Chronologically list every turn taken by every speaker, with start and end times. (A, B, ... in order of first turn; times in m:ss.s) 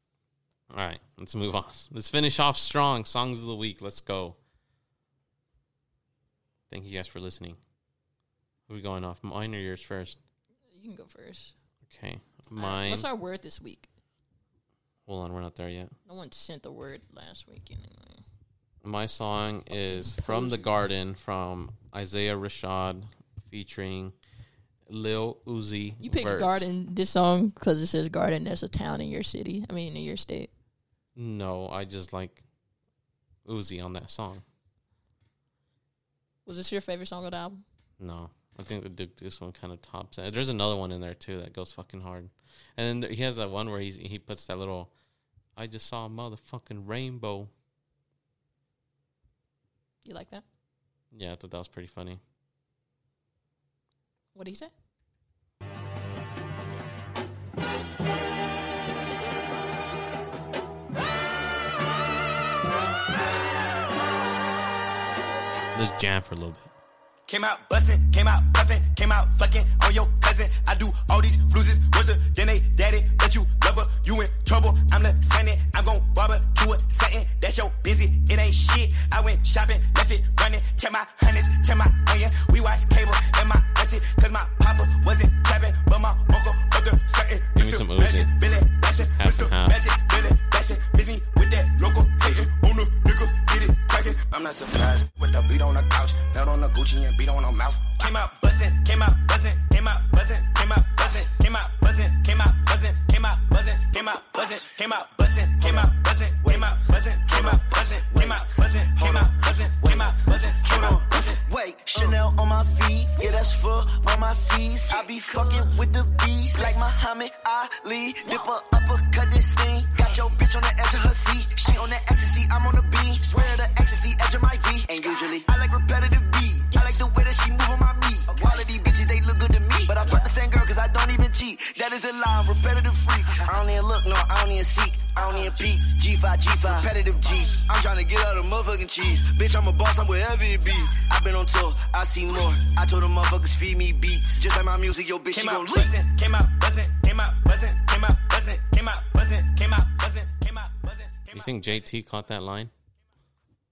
0:00.7-0:04.4 A
0:06.7-0:07.6 A
0:08.7-0:10.2 A
0:10.7-0:11.5 B
0:11.9-0:13.1 A
0:12.6-0:13.9 B
0:15.0-0:15.9 A
0:16.1-0:18.2 B
0:18.8-0:24.2 A
0:19.7-0:20.7 B
0:24.9-0:26.7 A
0:26.0-0:30.5 B
0:31.2-0:32.4 A
0:33.4-0:34.4 A
0:36.4-0:37.6 B
0:38.0-0:44.9 A
0:45.6-0:47.5 A
0:50.0-0:50.4 B
0:51.1-0:52.2 A
0:54.3-0:54.7 B
1:05.7-1:06.7 A
1:07.3-1:52.2 C
1:27.6-1:28.3 A
1:29.2-1:29.8 A
1:46.4-2:26.0 D
1:54.9-1:55.4 C
1:56.6-1:56.8 C
2:03.3-2:03.6 C
2:06.7-2:07.0 C
2:08.3-2:08.7 C
2:09.9-2:10.3 C
2:15.1-2:15.7 C
2:16.6-2:17.6 C
2:25.3-2:31.5 C
2:31.3-2:32.7 A